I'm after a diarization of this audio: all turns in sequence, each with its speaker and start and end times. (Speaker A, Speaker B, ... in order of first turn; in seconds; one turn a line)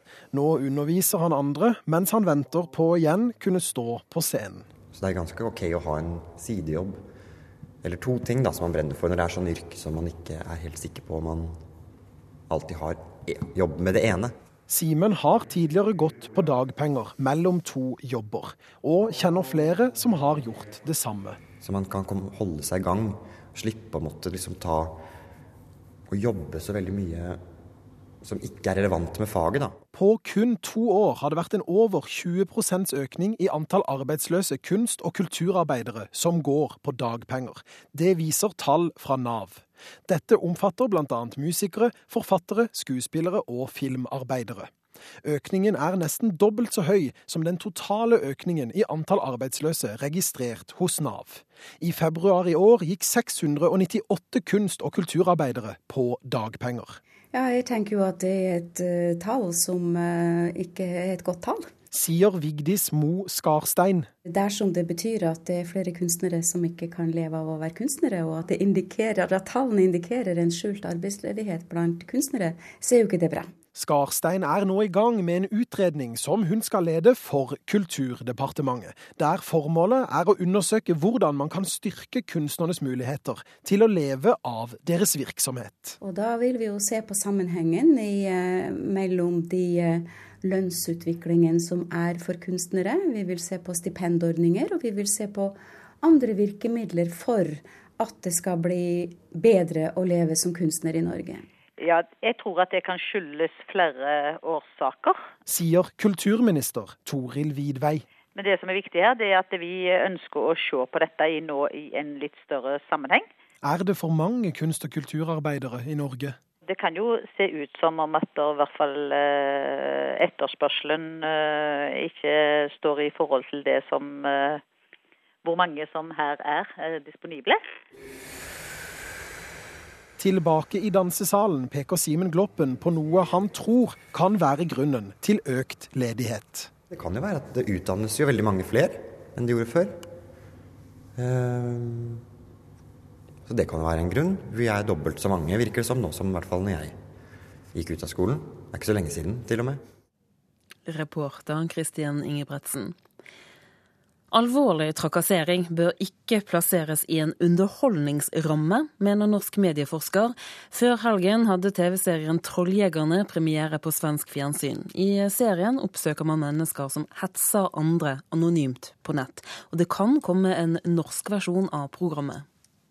Speaker A: 0.3-4.7
Speaker B: 4.9-7.0
Speaker B: 7.8-11.6
Speaker B: 12.5-14.3
Speaker A: 14.7-21.4
Speaker B: 21.6-25.0
Speaker B: 26.1-27.4
Speaker B: 28.2-29.8
Speaker A: 29.9-44.7
Speaker A: 45.2-57.0
Speaker C: 57.3-61.7
Speaker A: 61.9-64.1
Speaker C: 64.2-73.5
Speaker A: 73.7-86.0
Speaker C: 86.0-101.5
Speaker D: 101.8-105.3
Speaker A: 105.5-108.0
Speaker D: 108.3-113.3
Speaker A: 113.6-116.3
Speaker D: 116.7-124.6
Speaker D: 125.4-127.6
Speaker A: 130.2-136.7
Speaker B: 136.9-140.0
Speaker B: 141.2-142.2
Speaker B: 143.4-147.0
Speaker B: 147.7-149.8
Speaker E: 150.8-152.9
Speaker E: 154.3-172.4